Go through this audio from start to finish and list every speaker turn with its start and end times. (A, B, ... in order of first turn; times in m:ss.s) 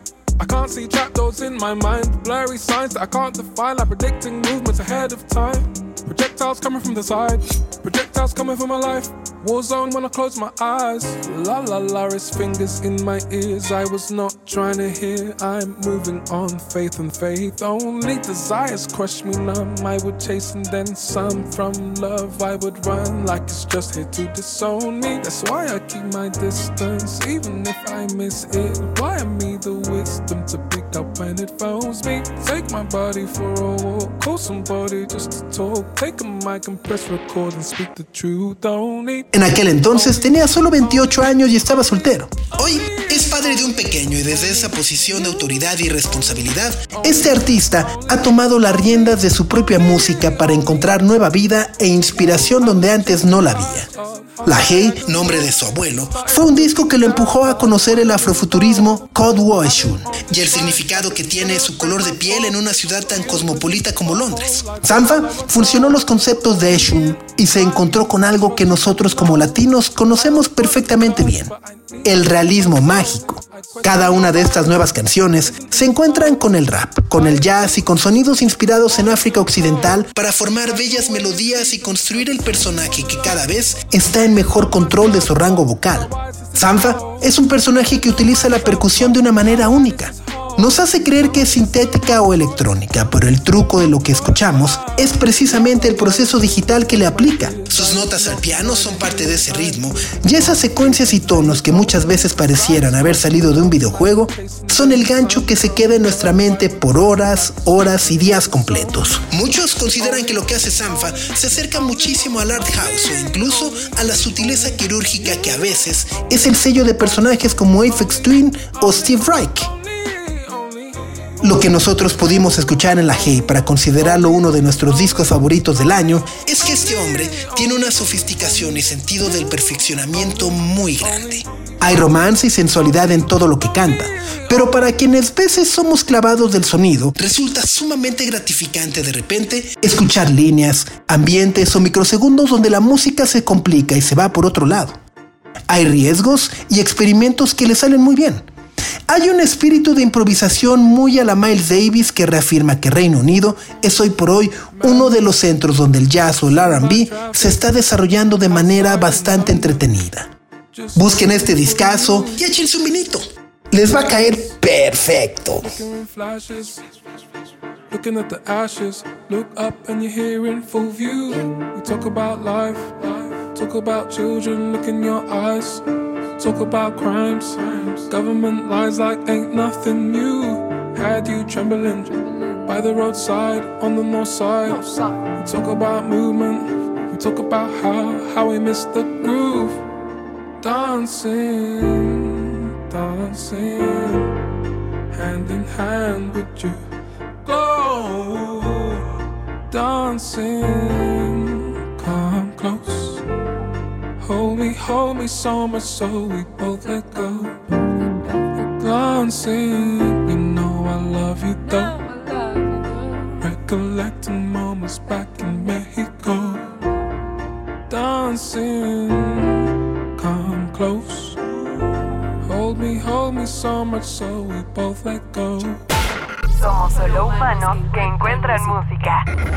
0:00.4-0:41.7 A
0:39.3-0:53.9 B
0:42.6-0:51.3 A
0:51.9-1:55.6 A
0:54.4-1:11.5 B
1:12.0-1:59.7 B
1:58.8-2:01.3 A
2:01.4-2:25.0 B
2:03.0-2:05.0 A
2:06.5-2:15.0 A
2:25.7-2:28.5 B
2:29.1-2:40.3 B
2:34.7-2:35.4 A
2:36.2-2:40.0 A
2:40.7-2:42.5 A
2:41.0-2:45.8 B
2:44.1-2:44.5 A
2:45.6-2:46.8 A
2:47.9-2:55.8 A
2:56.4-3:09.8 A
3:10.6-3:14.3 A
3:15.1-3:16.8 A
3:17.4-3:19.1 A
3:19.7-3:23.2 A
3:24.2-3:27.6 A
3:28.8-3:32.1 A
3:33.4-3:36.7 A
3:37.9-3:41.4 A
3:42.4-3:45.8 A
3:46.5-3:49.2 C